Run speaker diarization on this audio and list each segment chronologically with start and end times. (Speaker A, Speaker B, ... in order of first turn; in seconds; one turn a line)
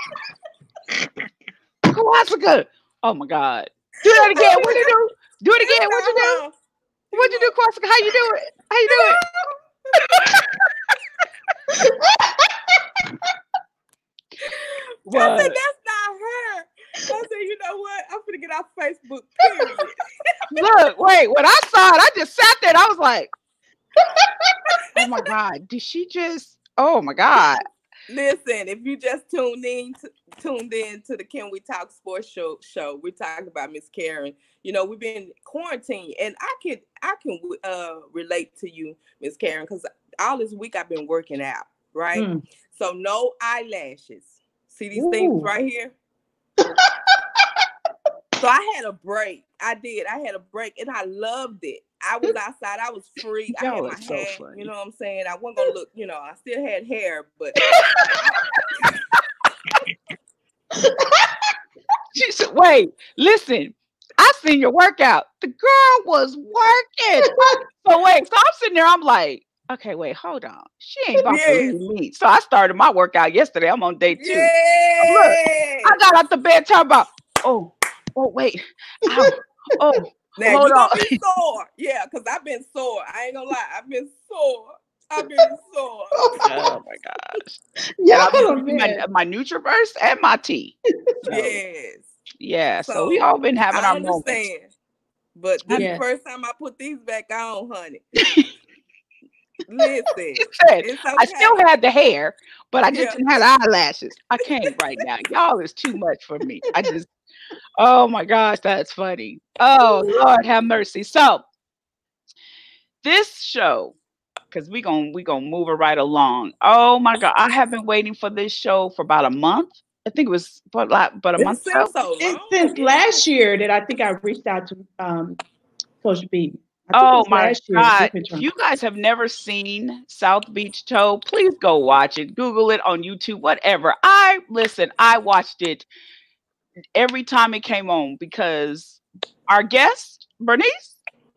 Speaker A: 1.9-6.4
Speaker B: 4.1-4.9
Speaker B: 5.6-6.5
Speaker B: 7.1-7.5
Speaker A: 7.1-9.2
Speaker B: 8.9-9.2
Speaker A: 10.2-10.4
Speaker C: 11.7-12.5
Speaker B: 14.4-20.0
Speaker A: 15.1-15.6
Speaker A: 20.5-23.3
Speaker A: 24.9-27.6
Speaker B: 28.1-45.9
Speaker C: 42.1-42.4
Speaker C: 44.9-45.5
Speaker B: 48.4-59.0
Speaker A: 53.6-54.7
Speaker C: 60.8-61.4
Speaker A: 62.1-74.5
Speaker C: 67.2-67.6
Speaker B: 71.2-71.8
Speaker B: 74.2-76.0
Speaker A: 75.0-81.2
Speaker C: 79.1-79.3
Speaker B: 80.4-86.2
Speaker C: 86.2-86.7
Speaker A: 86.4-87.6
Speaker C: 88.0-89.0
Speaker A: 88.1-90.7
Speaker B: 91.3-92.1
Speaker A: 92.4-94.4
Speaker B: 92.9-94.7
Speaker B: 95.4-98.0
Speaker C: 95.7-96.0
Speaker A: 98.2-98.5
Speaker B: 99.7-101.6
Speaker A: 100.5-107.1
Speaker B: 102.9-103.2
Speaker A: 107.8-111.5
Speaker A: 113.0-114.0
Speaker A: 114.5-121.9
Speaker B: 121.4-123.2
Speaker C: 122.2-125.4
Speaker C: 126.0-128.4
Speaker A: 126.9-135.8
Speaker A: 137.0-141.0